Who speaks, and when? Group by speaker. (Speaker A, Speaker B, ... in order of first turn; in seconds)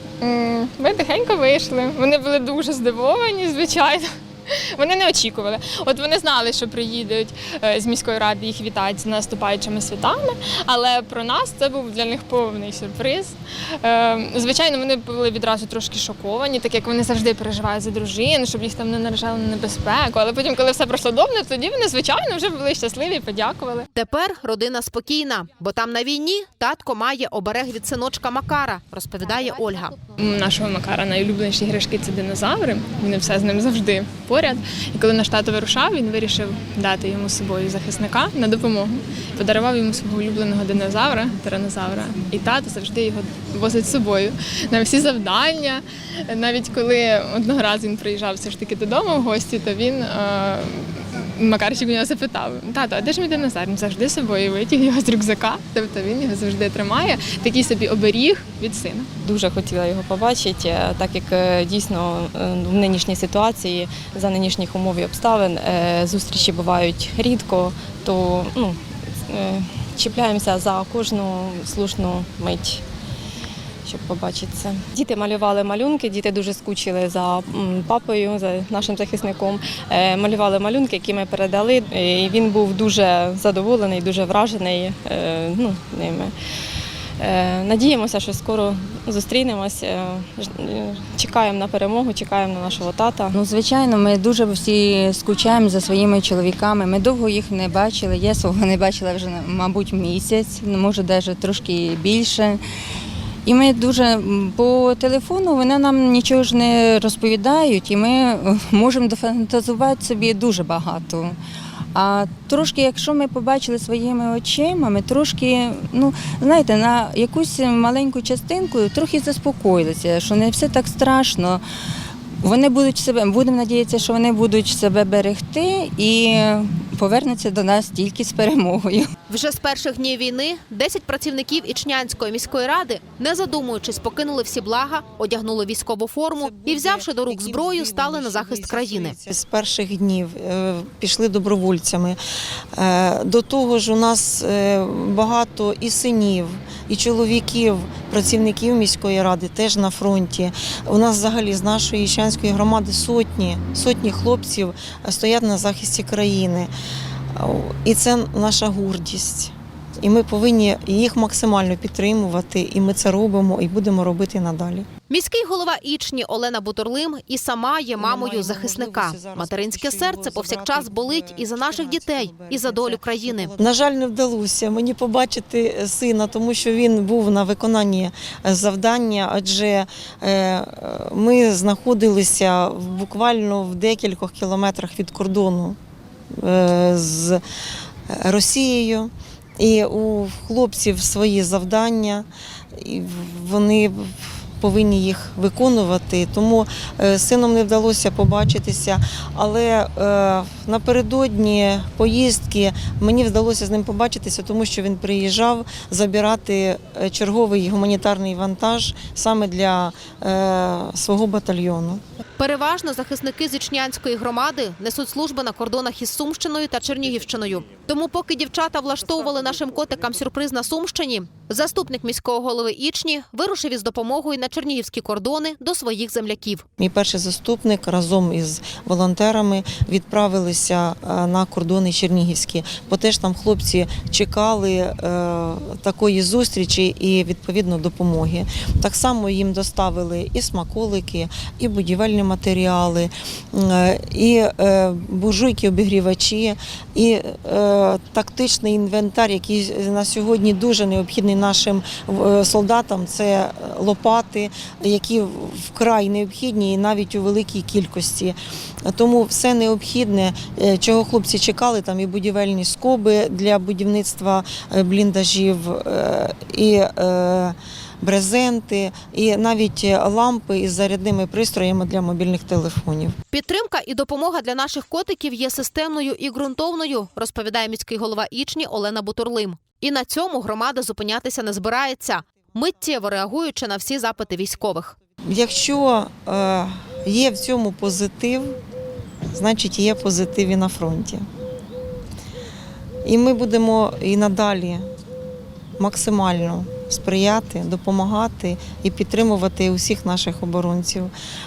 Speaker A: 0.2-23.9, 30.1-59.1
Speaker B: 23.9-30.0, 129.3-139.1, 165.1-173.5, 212.4-226.6, 273.3-284.9
Speaker C: 59.3-68.8, 69.3-72.8, 73.8-86.3, 87.2-93.2
Speaker D: 93.3-102.6, 103.4-111.4, 111.9-121.6, 122.4-129.1
Speaker E: 136.4-142.2, 142.7-156.7, 157.3-164.9, 168.0-185.8, 186.3-187.4, 188.1-212.0, 226.8-273.2, 285.3-288.6, 289.3-291.2, 293.0-294.9, 295.8-301.1